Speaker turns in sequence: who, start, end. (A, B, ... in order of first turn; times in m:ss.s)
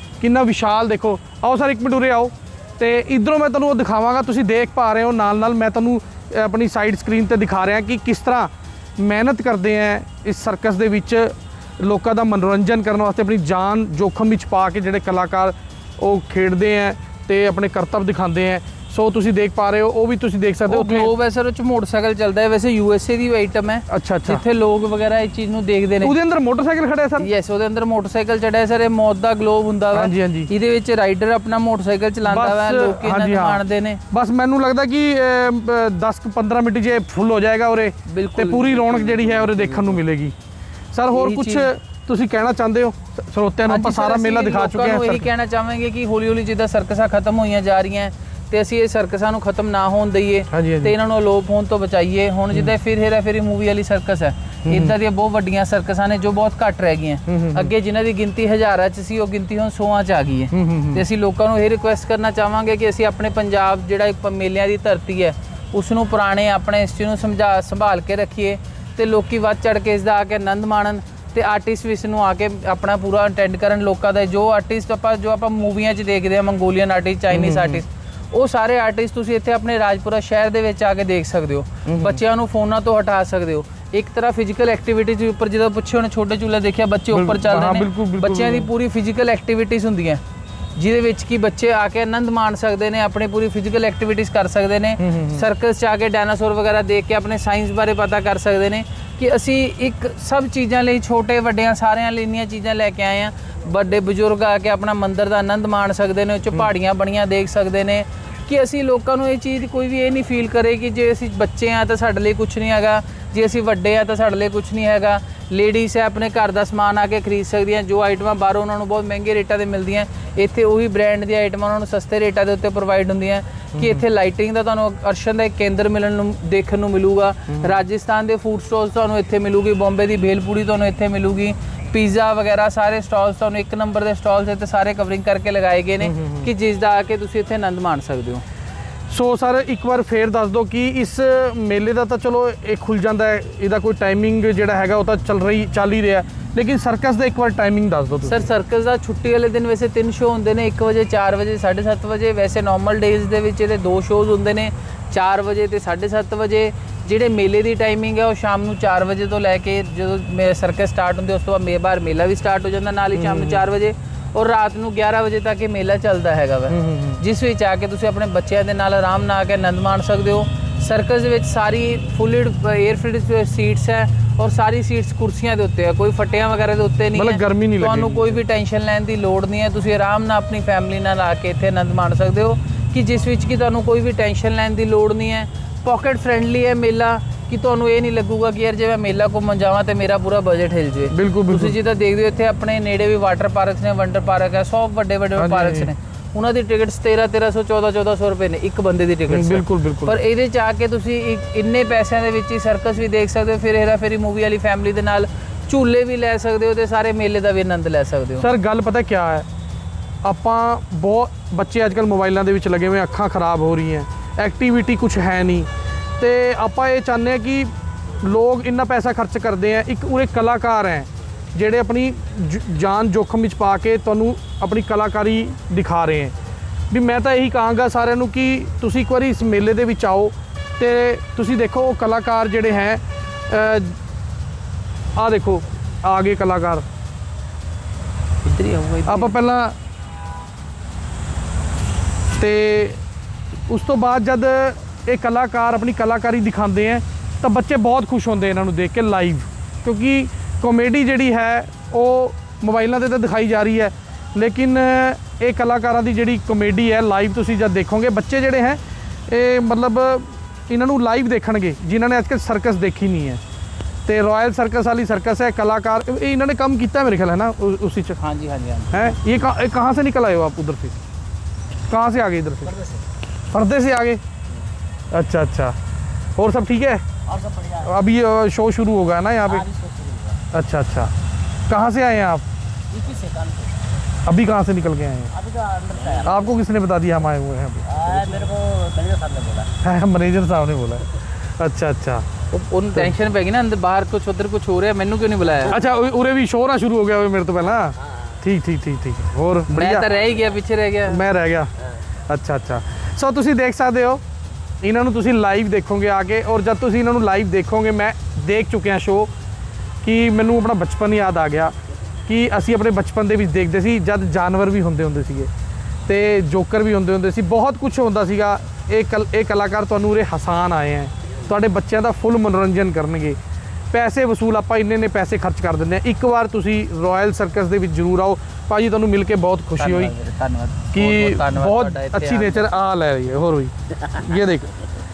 0:00.2-0:21.1 A
0:20.7-0:26.2 B
0:23.9-0:24.4 A
0:26.0-0:27.3 A
0:27.2-0:34.0 B
0:29.9-0:30.5 A
0:32.2-0:40.3 A
0:38.1-0:40.0 B
0:40.9-0:45.3 A
0:41.1-0:41.7 B
0:43.7-1:30.2 B
0:50.5-0:50.9 A
0:54.7-0:54.9 A
0:57.3-0:57.7 A
1:00.5-1:01.0 A
1:17.3-1:17.8 A
1:21.9-1:22.2 A
1:27.1-1:28.7 A
1:30.8-2:18.4 B
1:35.0-1:35.4 A
2:03.8-2:04.0 A
2:07.5-2:07.8 A
2:16.0-2:16.5 A
2:19.1-2:28.5 A
2:28.2-3:28.5 B
2:43.1-2:43.7 A
2:46.7-2:47.2 A
2:57.1-2:58.4 A
3:11.1-3:11.8 A
3:15.4-3:15.9 A
3:19.3-3:20.2 A
3:28.4-3:29.5 A
3:30.2-3:35.7 A
3:36.2-3:37.7 A
3:38.2-3:46.3 A
3:46.9-3:54.0 A
3:55.2-3:56.8 A
3:58.4-3:59.3 B
3:59.1-3:59.8 A
4:02.4-4:03.0 A
4:03.7-4:23.4 A
4:24.1-4:28.2 A
4:28.2-4:29.2 B
4:28.9-4:31.0 A
4:31.9-4:32.8 A
4:32.7-4:33.0 C
4:33.5-4:34.2 A
4:35.1-4:35.8 A
4:36.4-4:37.0 A
4:37.3-4:37.9 C
4:37.8-4:39.7 A
4:39.5-4:40.4 C
4:40.5-4:41.1 A
4:41.7-4:42.4 A
4:42.9-4:43.8 C
4:44.2-4:45.3 A
4:45.3-4:46.6 C
4:46.2-4:48.4 A
4:47.9-4:49.7 C
4:49.8-4:51.0 A
4:51.6-4:52.2 A
4:52.5-4:55.8 B
4:55.7-5:00.1 A
4:59.7-5:01.2 B
5:01.1-5:01.7 A
5:02.3-5:04.2 A
5:04.8-5:09.3 A
5:10.0-5:11.7 A
5:12.3-5:15.5 A
5:16.1-5:23.4 A
5:23.9-5:30.1 A
5:29.8-5:32.7 B
5:30.9-5:34.7 A